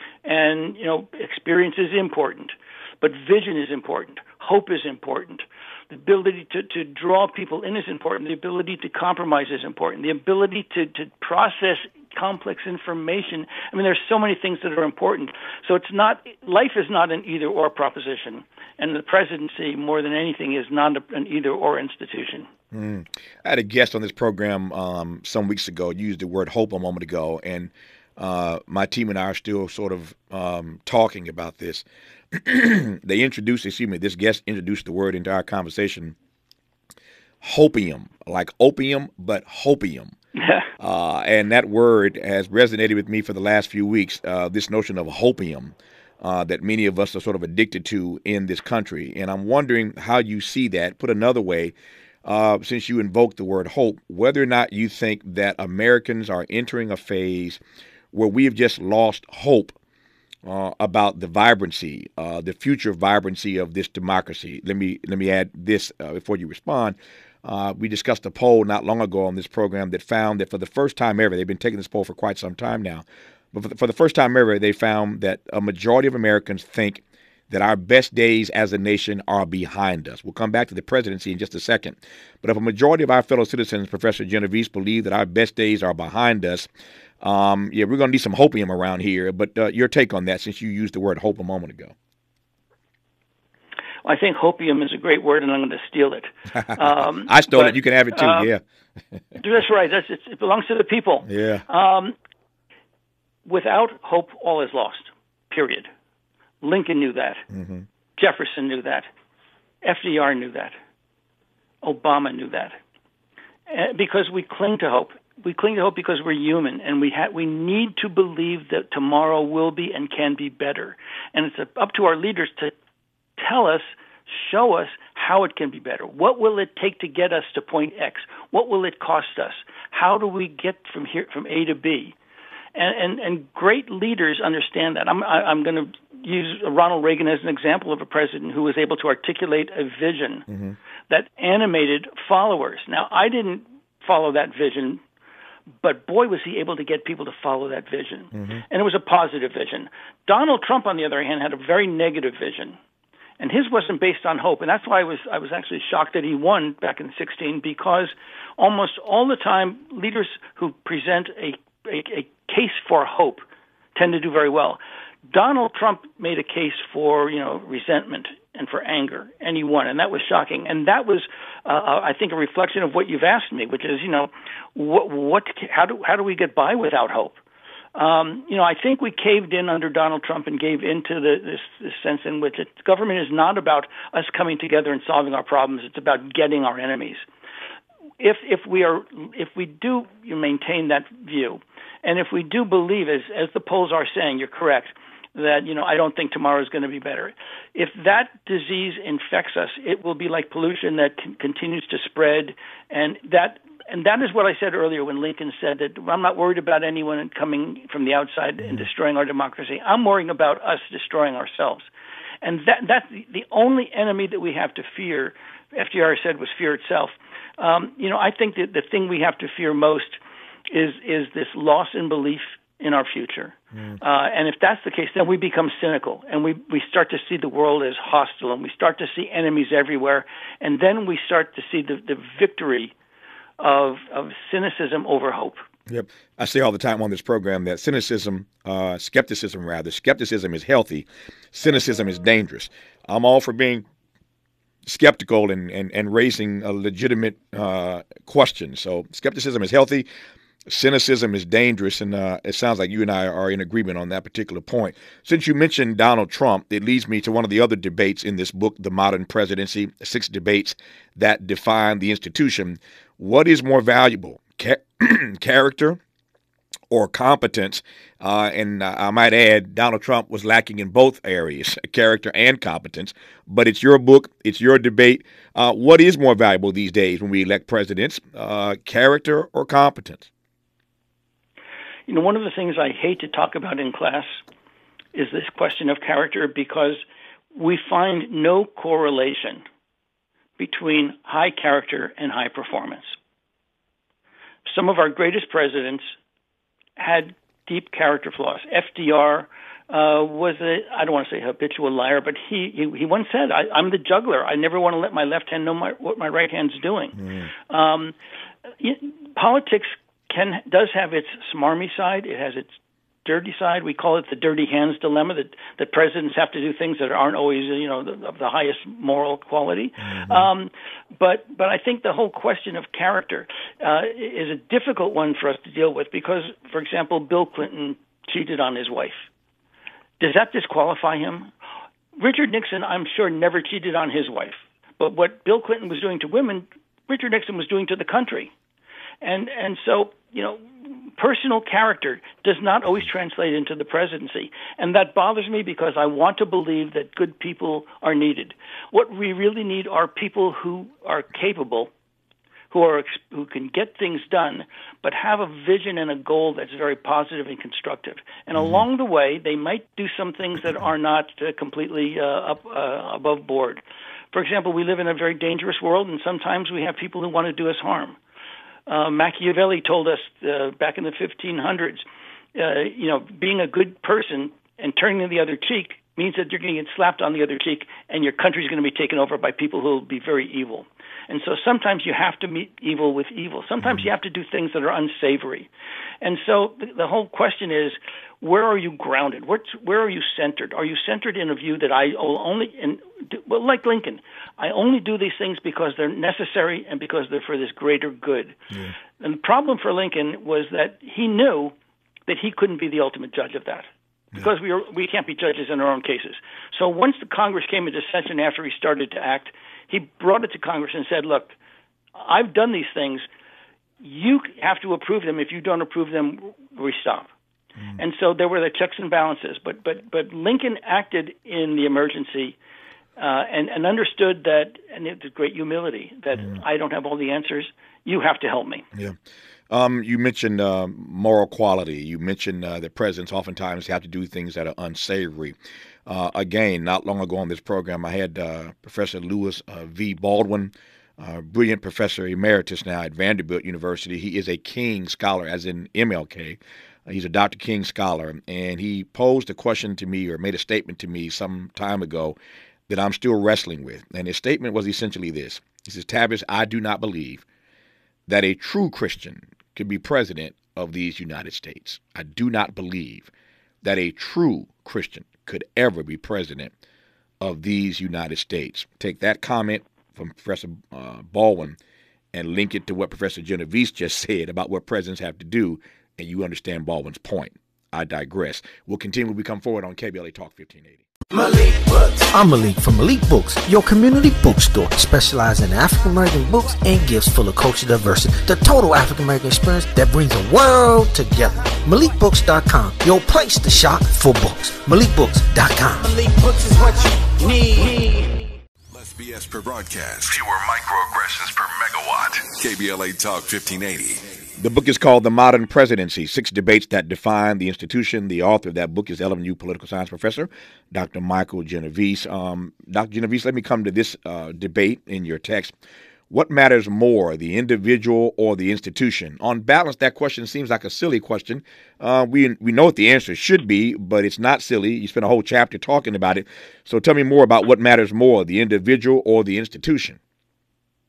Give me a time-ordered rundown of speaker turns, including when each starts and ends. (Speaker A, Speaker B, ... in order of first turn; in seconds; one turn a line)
Speaker A: 0.2-22.5
Speaker B: 22.7-36.1
Speaker B: 37.4-40.1
Speaker A: 40.4-40.7
Speaker B: 40.8-57.6
Speaker B: 58.1-59.8
Speaker B: 60.4-86.7
Speaker B: 87.2-91.9
Speaker A: 94.0-98.5
Speaker B: 96.6-98.6
Speaker A: 99.4-102.1
Speaker B: 101.3-101.6
Speaker A: 103.5-105.9
Speaker A: 106.6-107.4
Speaker B: 107.5-107.8
Speaker A: 108.2-109.1
Speaker A: 109.8-110.7
Speaker A: 111.8-112.8
Speaker A: 113.7-122.7
Speaker A: 123.4-132.1
Speaker A: 132.7-140.5
Speaker B: 140.5-140.8
Speaker A: 141.1-145.0
Speaker A: 145.8-152.8
Speaker A: 153.4-177.4
Speaker A: 177.9-187.2
Speaker A: 188.2-211.9
Speaker A: 212.4-232.9
Speaker A: 233.6-235.6
Speaker B: 235.9-243.8
Speaker B: 244.8-250.1
Speaker B: 250.7-266.0
Speaker B: 266.9-280.3
Speaker A: 282.1-284.4
Speaker A: 285.1-287.0
Speaker A: 287.5-289.6
Speaker A: 290.6-293.1
Speaker A: 294.6-296.1
Speaker A: 297.0-308.1
Speaker A: 308.8-329.2
Speaker B: 320.1-320.4
Speaker A: 330.2-331.5
Speaker A: 332.2-338.5
Speaker A: 339.2-351.9
Speaker A: 352.7-363.8
Speaker A: 364.3-368.2
Speaker A: 368.9-372.0
Speaker A: 372.5-385.7
Speaker A: 386.2-398.6
Speaker A: 399.2-401.7
Speaker A: 402.3-411.6
Speaker A: 412.1-413.2
Speaker A: 414.0-417.3
Speaker A: 418.0-422.6
Speaker A: 423.2-428.8
Speaker B: 429.7-452.4
Speaker B: 452.9-457.4
Speaker B: 458.3-463.3
Speaker B: 463.8-466.7
Speaker B: 467.4-471.8
Speaker B: 472.3-481.0
Speaker C: 481.3-498.3
Speaker D: 498.9-504.4
Speaker B: 504.6-515.7
Speaker B: 516.3-530.2